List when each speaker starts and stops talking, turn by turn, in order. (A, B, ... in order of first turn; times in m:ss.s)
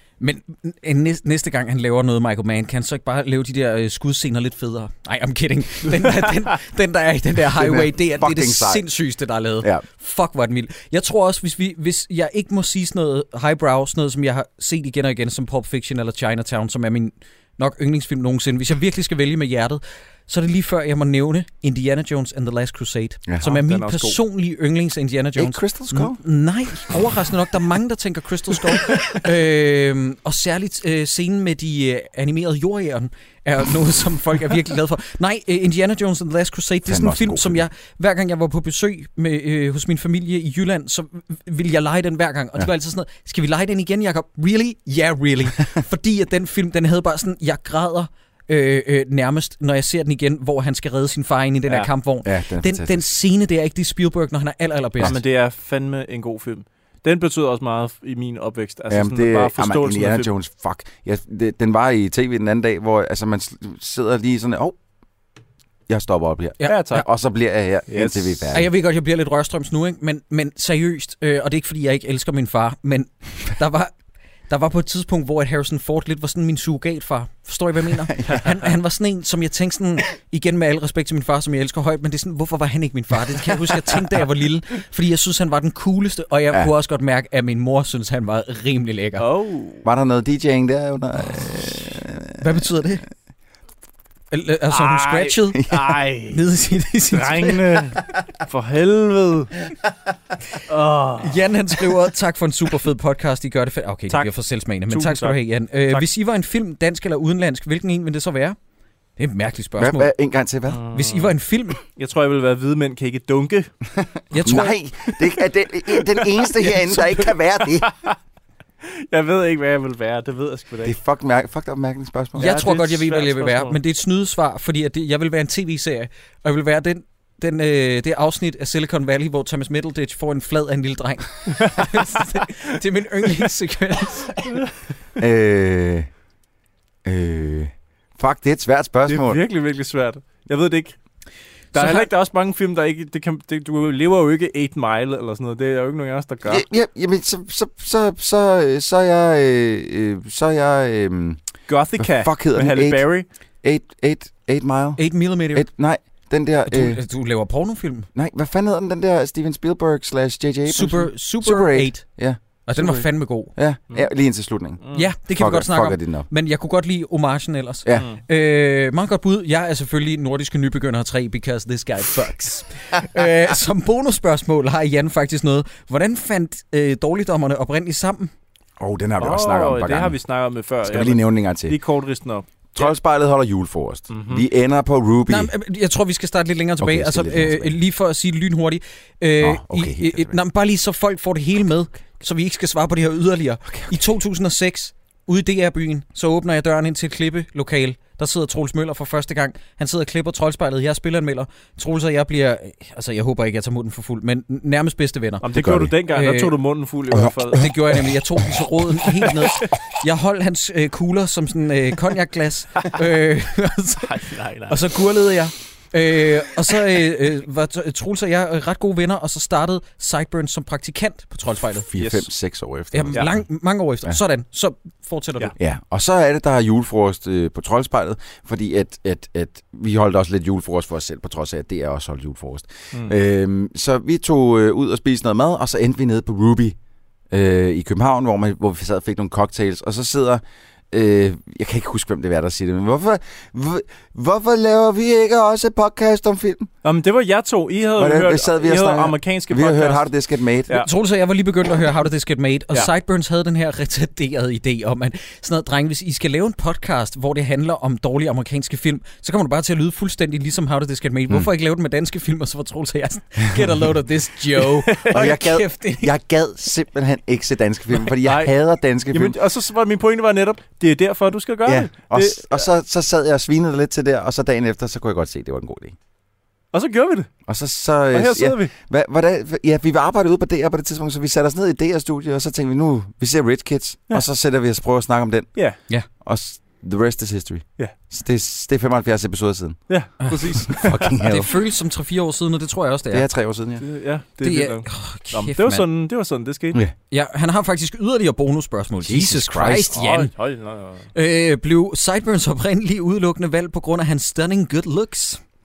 0:00.2-0:55.2 A
0:07.5-0:08.9 B
0:23.4-0:24.2 C
0:25.4-0:26.2 B
0:36.8-0:37.6 B
0:52.2-0:53.1 B
0:55.0-1:00.3 C
0:58.9-1:04.8 B
1:05.9-1:08.7 B
1:06.6-1:07.0 A
1:06.6-1:07.0 C
1:07.9-1:08.5 C
1:08.5-1:13.9 A
1:14.5-1:29.2 A
1:29.2-1:29.8 C
1:29.8-1:32.4 B
1:32.4-1:33.0 A
1:34.3-1:37.8 A
1:34.7-1:36.4 C
1:37.1-1:39.6 C
1:40.7-1:41.4 C
1:41.2-1:48.6 A
1:44.9-1:46.0 C
1:49.2-1:50.1 A
1:49.8-1:50.8 B
1:50.7-1:53.7 C
1:50.9-1:51.8 A
1:54.3-1:54.8 A
1:54.3-1:57.9 B
1:55.9-1:56.5 C
1:57.3-1:58.2 C
1:58.8-2:00.9 C
2:00.8-2:02.6 B
2:02.4-2:03.8 C
2:02.4-2:14.6 A
2:11.6-2:12.0 C
2:15.2-2:16.1 B
2:17.0-2:19.4 B
2:19.1-2:21.0 C
2:21.7-2:26.6 C
2:21.7-2:22.1 A
2:26.4-2:31.4 B
2:31.7-2:33.2 C
2:32.0-2:33.1 B
2:33.6-2:37.0 B
2:35.0-2:35.7 A
2:36.7-2:38.1 A
2:38.1-2:46.3 B
2:40.7-2:42.0 A
2:42.6-2:43.5 A
2:44.8-2:45.1 C
2:44.9-2:58.3 A
2:47.9-2:48.2 C
2:58.8-3:00.2 B
2:59.2-3:02.9 C
3:00.8-3:01.8 B
3:02.7-3:05.5 B
3:04.1-3:04.4 C
3:05.3-3:25.4 A
3:06.8-3:07.8 B
3:09.4-3:10.4 B
3:13.7-3:14.0 B
3:25.4-3:27.8 C
3:25.5-3:25.9 B
3:26.1-3:26.5 A
3:27.1-3:27.5 B
3:27.5-3:41.9 A
3:34.0-3:34.8 C
3:41.9-3:43.4 B
3:42.0-3:42.3 C
3:42.9-3:45.5 A
3:45.6-3:56.8 B
3:57.3-4:06.7 B
4:06.8-4:10.1 C
4:08.0-4:10.8 B
4:10.8-4:26.1 A
4:24.6-4:25.3 C
4:25.1-4:29.4 B
4:28.1-4:32.7 C
4:31.6-4:36.0 B
4:36.7-4:37.3 C
4:37.5-4:49.8 B
4:38.1-4:38.7 C
4:49.9-4:51.2 C
4:50.2-4:53.3 A
4:50.7-4:51.5 B
4:53.1-4:53.8 B
4:53.8-4:56.8 C
4:54.4-4:55.8 A
4:57.1-5:00.3 A
4:59.0-5:00.0 B
4:59.9-5:01.1 C
5:01.1-5:05.4 A